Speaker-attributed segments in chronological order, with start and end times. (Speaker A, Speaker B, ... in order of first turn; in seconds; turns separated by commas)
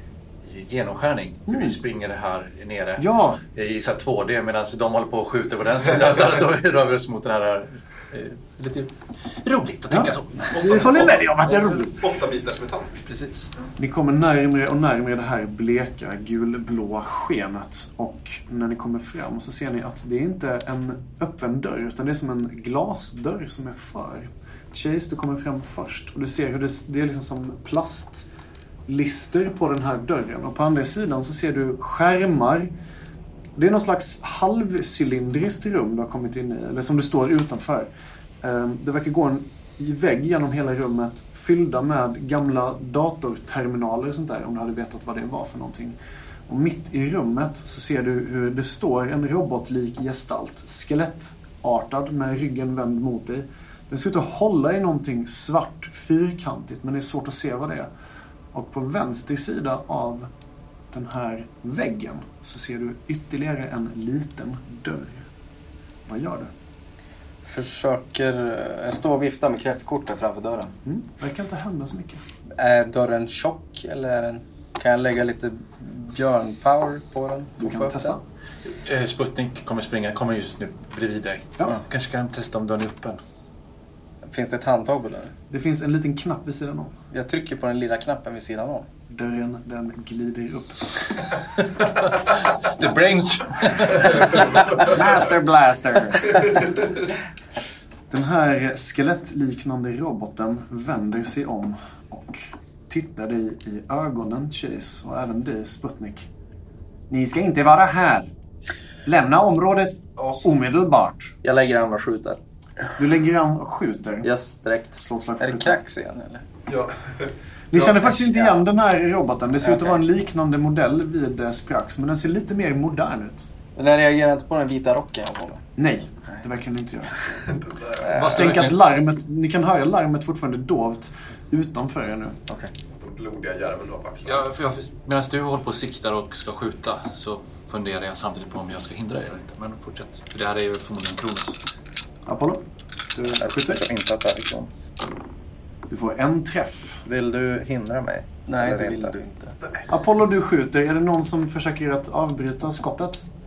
Speaker A: 0.4-11.8, Speaker B: 1.5-1.8, Speaker B: 3.0-3.4, Speaker B: 9.9-12.1, Speaker C: 10.5-13.0, Speaker A: 13.1-13.5, Speaker B: 13.8-28.3, Speaker B: 28.9-32.7, Speaker B: 33.6-37.9, Speaker B: 38.4-57.9, Speaker B: 58.5-60.3, Speaker B: 60.9-65.3, Speaker B: 66.1-66.5, Speaker D: 67.5-70.7, Speaker B: 70.8-72.2, Speaker D: 72.5-78.2, Speaker B: 77.6-78.2, Speaker A: 78.7-83.2, Speaker D: 84.2-85.3, Speaker B: 85.5-86.9, Speaker D: 87.1-88.9, Speaker B: 89.1-91.3, Speaker A: 91.8-94.9, Speaker C: 94.1-95.0, Speaker B: 94.8-96.7, Speaker B: 98.1-106.3, Speaker B: 107.1-108.3, Speaker B: 109.1-111.3, Speaker C: 110.2-110.5, Speaker E: 111.4-112.4, Speaker B: 113.0-114.3, Speaker E: 114.2-114.9, Speaker B: 115.0-115.8, Speaker D: 115.4-116.5, Speaker C: 116.7-117.3, Speaker B: 117.7-123.5, Speaker D: 117.8-118.6, Speaker D: 119.6-120.0, Speaker D: 123.8-125.7, Speaker B: 125.8-127.5, Speaker C: 127.5-128.1, Speaker A: 128.0-128.8, Speaker D: 128.0-128.3, Speaker B: 128.3-132.4, Speaker C: 133.0-134.4, Speaker A: 134.2-141.6, Speaker B: 142.3-143.8, Speaker E: 143.4-144.7, Speaker B: 145.9-147.0, Speaker E: 147.1-149.2, Speaker D: 148.5-149.6, Speaker B: 149.9-153.2